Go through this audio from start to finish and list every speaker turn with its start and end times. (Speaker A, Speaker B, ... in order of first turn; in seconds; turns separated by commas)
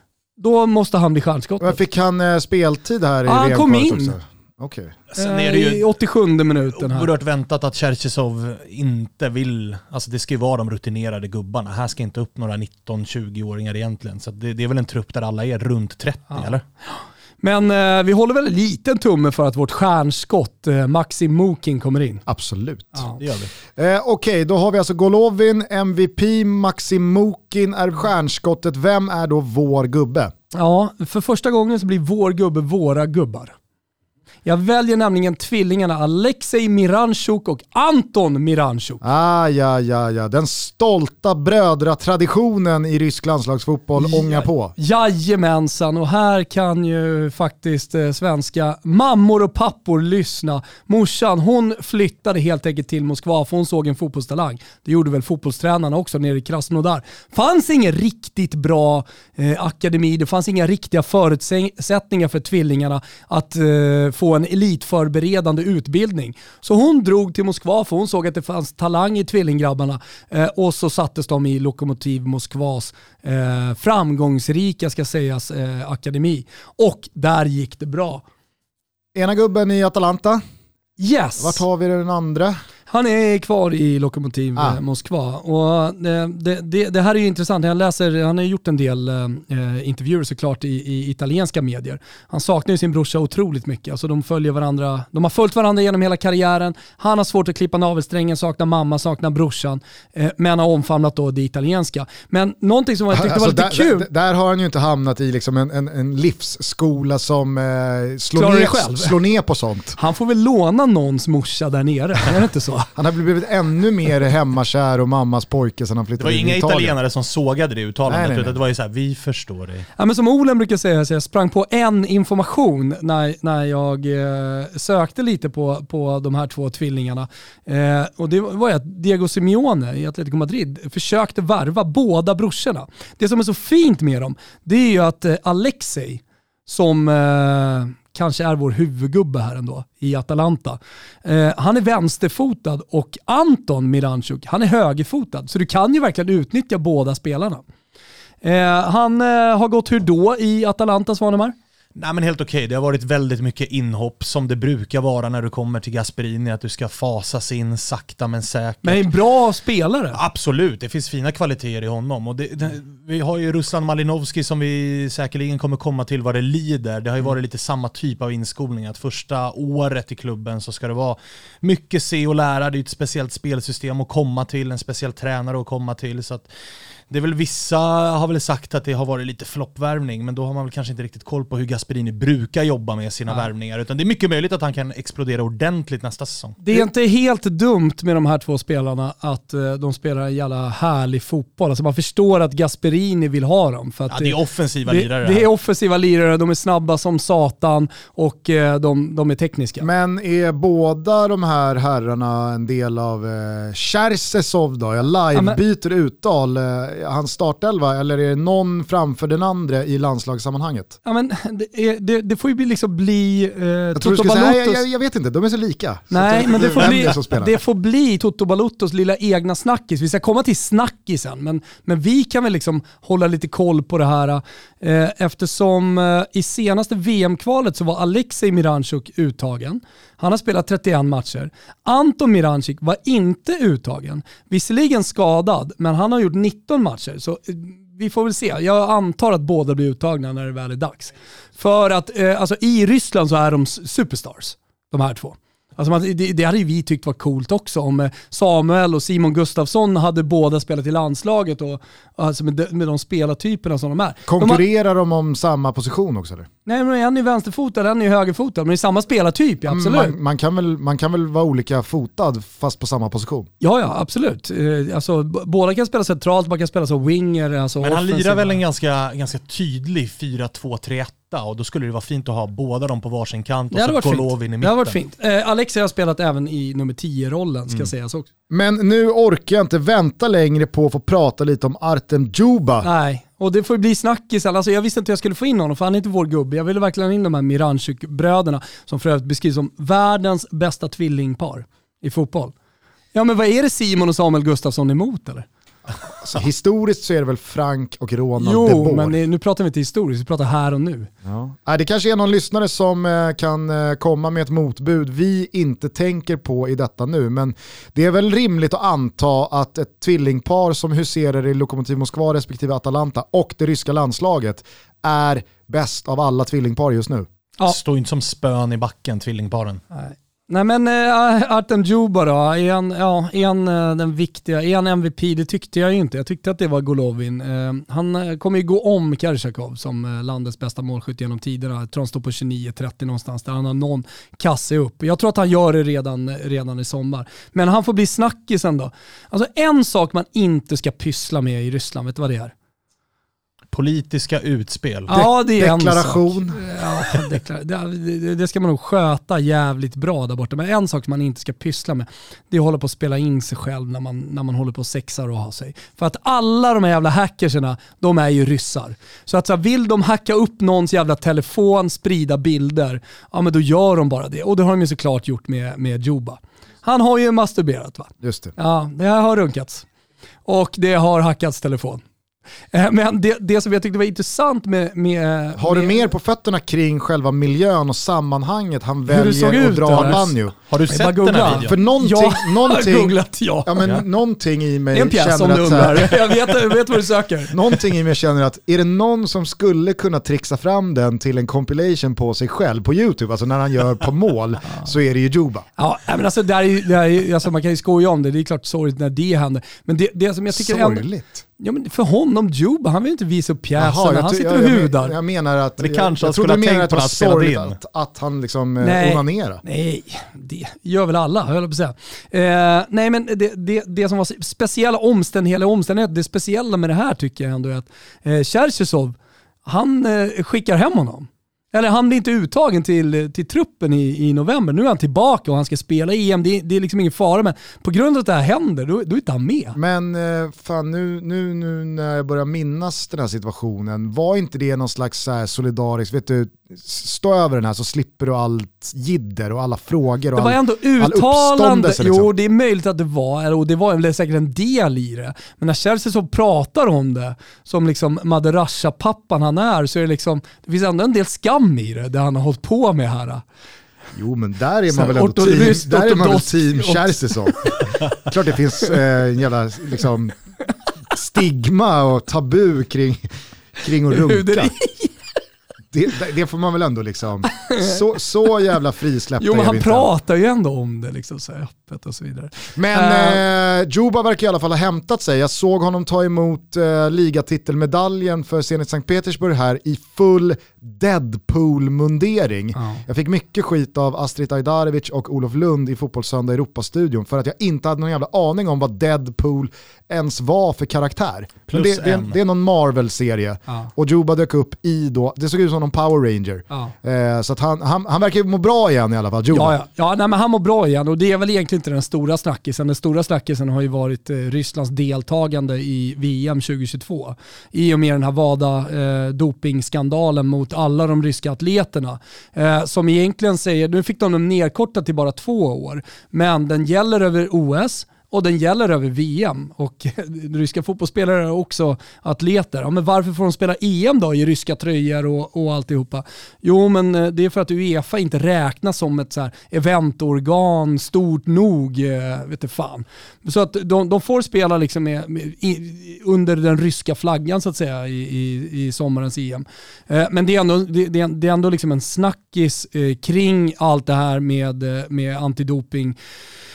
Speaker A: 0.4-1.8, Speaker B: 1.6-4.9, Speaker A: 3.2-4.1, Speaker C: 5.1-5.8, Speaker A: 5.2-7.1, Speaker C: 6.7-16.6, Speaker A: 17.4-22.2, Speaker B: 22.3-23.1, Speaker C: 23.2-23.5, Speaker B: 23.7-30.3, Speaker A: 30.5-33.5, Speaker A: 34.4-39.0, Speaker B: 39.0-44.7, Speaker A: 44.0-78.2, Speaker B: 79.1-80.4, Speaker A: 81.0-81.6, Speaker B: 81.4-82.5, Speaker A: 82.9-104.1, Speaker B: 103.1-110.0, Speaker A: 108.3-109.2, Speaker A: 110.0-112.9, Speaker B: 112.9-116.9, Speaker C: 116.2-119.9, Speaker B: 118.1-118.6, Speaker A: 120.0-147.6, Speaker A: 148.4-151.5, Speaker C: 151.9-159.1, Speaker A: 158.8-160.2, Speaker C: 160.1-176.5, Speaker C: 177.1-186.6, Speaker A: 186.6-199.8, Speaker C: 194.1-195.5, Speaker B: 199.8-210.9, Speaker A: 205.3-205.6, Speaker A: 211.0-214.8, Speaker B: 213.9-217.6, Speaker A: 216.1-254.6, Speaker B: 254.3-256.5, Speaker A: 256.6-260.1, Speaker B: 259.7-263.5, Speaker A: 263.6-268.6, Speaker C: 267.8-274.9, Speaker A: 273.7-278.3, Speaker B: 278.5-282.9, Speaker A: 282.8-292.5, Speaker A: 293.1-295.4, Speaker B: 296.2-299.1, Speaker A: 298.4-301.1, Speaker B: 301.2-317.3, Speaker C: 317.6-319.8, Speaker A: 319.9-342.5, Speaker C: 343.7-345.1, Speaker A: 345.1-369.8, Speaker B: 345.1-346.6, Speaker B: 368.2-368.5, Speaker A: 370.4-372.0, Speaker A: 372.7-376.1, Speaker B: 375.6-380.5, Speaker A: 379.1-383.9, Speaker C: 379.9-381.7, Speaker B: 381.4-386.2, Speaker A: 384.9-387.8, Speaker B: 387.5-395.6, Speaker A: 395.8-401.0, Speaker B: 400.5-401.4, Speaker A: 401.6-405.1, Speaker B: 403.8-409.6, Speaker C: 405.8-407.8, Speaker A: 408.8-429.8, Speaker B: 429.8-442.3, Speaker A: 440.3-453.4, Speaker B: 454.1-460.4, Speaker A: 454.9-457.8, Speaker B: 461.1-464.7, Speaker A: 464.1-465.1, Speaker B: 465.9-470.1, Speaker A: 467.5-468.0, Speaker A: 469.4-473.4, Speaker B: 472.8-499.7, Speaker C: 491.7-492.4, Speaker A: 499.5-546.1